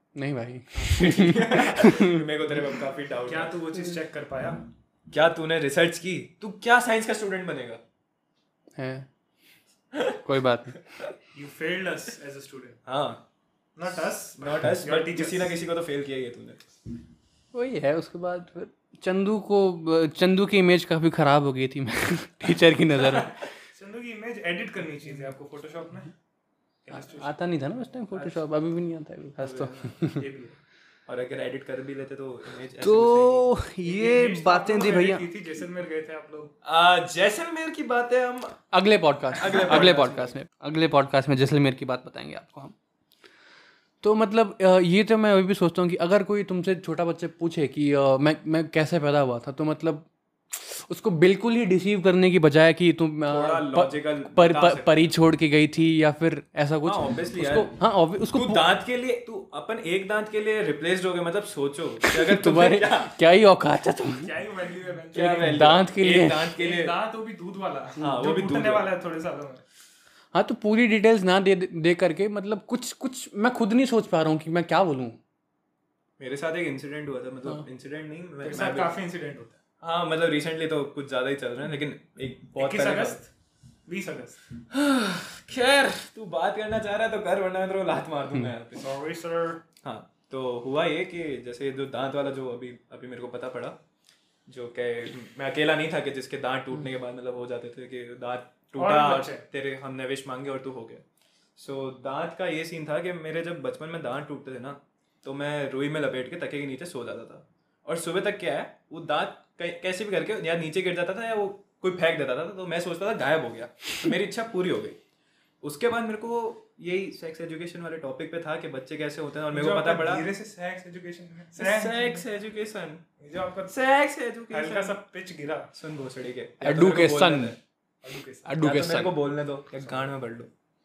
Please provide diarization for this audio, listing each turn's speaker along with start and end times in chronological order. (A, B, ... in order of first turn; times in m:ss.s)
0:00.2-0:02.2 A
0:00.7-0:03.5 B
0:03.3-0:04.6 C
0:05.1-0:07.8 B
0:08.8-0:09.1 A
0:10.2-0:10.8 A
0:11.3-0:12.8 C
0:12.8-0:13.2 B
0:13.8-0:15.6 C
0:14.4-0:16.7 B
0:17.5-0:23.4 A
0:23.7-0:26.1 C
0:26.8-0:28.4 C
0:26.9-0:30.2 A
0:29.4-0:30.6 C
0:31.1-0:33.5 B
0:32.8-0:35.2 A
0:33.8-0:36.5 C
0:36.6-0:38.6 B
0:38.7-0:42.7 A
0:39.3-0:40.3 B
0:44.0-0:58.6 A
0:53.3-0:55.0 B
0:56.8-0:57.8 B
0:58.3-1:03.2 B
1:02.0-1:04.3 A
1:04.2-1:05.7 C
1:05.1-1:07.0 B
1:05.4-1:06.5 A
1:06.6-1:09.6 C
1:08.0-1:08.9 B
1:10.3-1:15.2 A
1:16.2-1:18.9 B
1:18.4-1:19.6 C
1:19.8-1:23.2 B
1:22.6-1:23.3 C
1:23.9-1:24.5 C
1:24.7-1:28.9 B
1:28.8-1:29.6 C
1:29.8-1:33.8 B
1:34.5-1:41.0 B
1:38.8-1:39.4 C
1:41.6-1:55.0 B
1:55.6-2:00.3 B
1:59.5-2:02.2 C
2:01.6-2:03.0 B
2:03.2-2:03.7 C
2:03.7-2:05.0 B
2:04.5-2:05.7 C
2:05.7-2:07.6 B
2:06.6-2:07.5 A
2:08.0-2:08.5 C
2:08.4-2:09.2 A
2:08.6-2:10.5 B